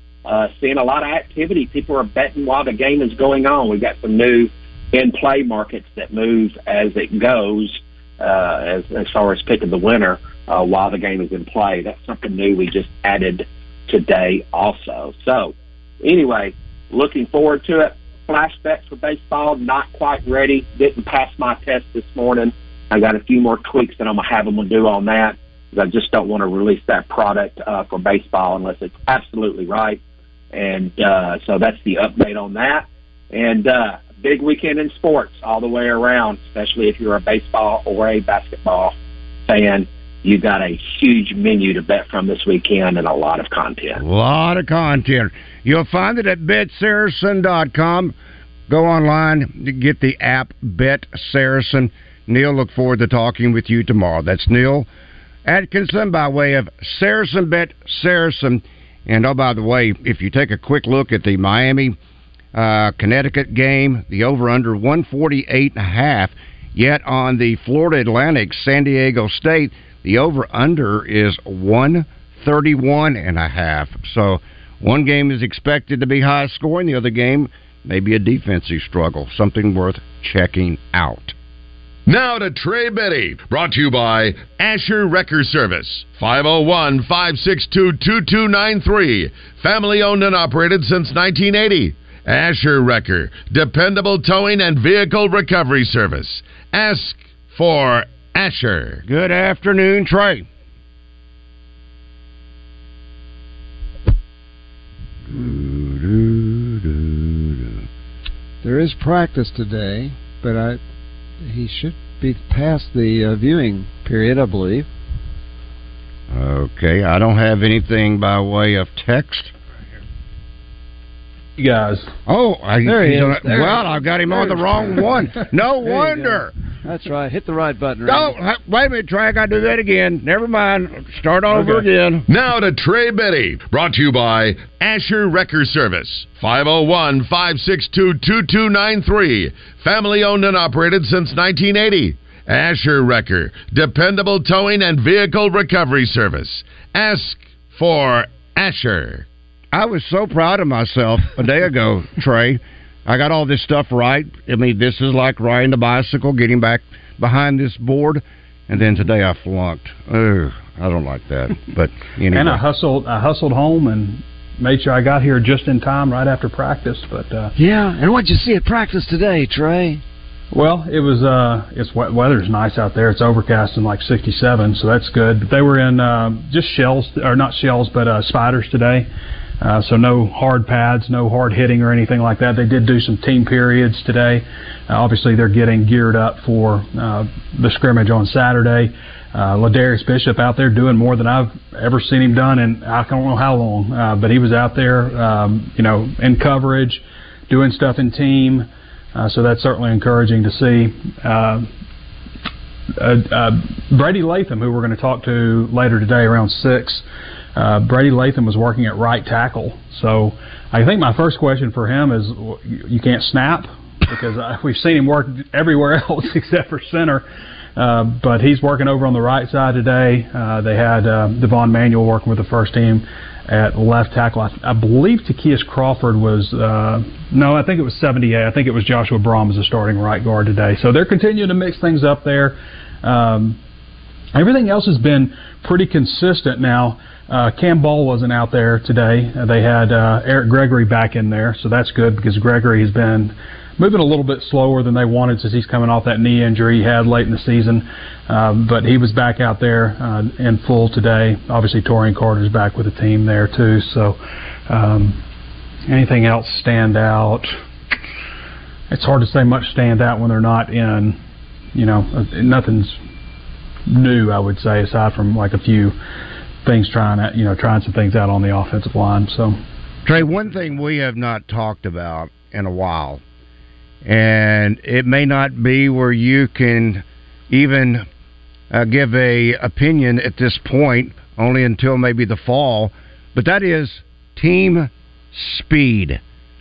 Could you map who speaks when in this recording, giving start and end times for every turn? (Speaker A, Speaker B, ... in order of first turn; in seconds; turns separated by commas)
Speaker A: 0.2-30.0, Speaker A: 30.5-38.9, Speaker A: 39.5-44.0, Speaker B: 44.0-48.1, Speaker B: 48.7-54.9, Speaker B: 55.4-62.0, Speaker B: 62.5-81.3, Speaker C: 82.1-99.0, Speaker B: 99.0-100.5, Speaker B: 105.3-107.8, Speaker D: 108.6-110.8, Speaker D: 111.4-114.9, Speaker B: 116.3-119.5, Speaker E: 121.6-122.1, Speaker B: 122.3-126.5, Speaker D: 122.8-128.3, Speaker B: 128.1-132.2, Speaker C: 132.3-149.3, Speaker B: 149.7-162.6, Speaker E: 162.3-167.5, Speaker D: 167.6-170.0, Speaker E: 170.5-179.1, Speaker E: 179.6-201.7, Speaker E: 203.0-217.2, Speaker E: 217.8-233.6, Speaker E: 234.3-254.2, Speaker E: 254.7-255.2, Speaker E: 255.9-257.5, Speaker E: 258.9-261.2, Speaker E: 261.7-263.0, Speaker E: 263.9-265.9, Speaker E: 266.6-269.6, Speaker B: 270.0-273.2, Speaker B: 274.0-278.0, Speaker B: 278.7-286.2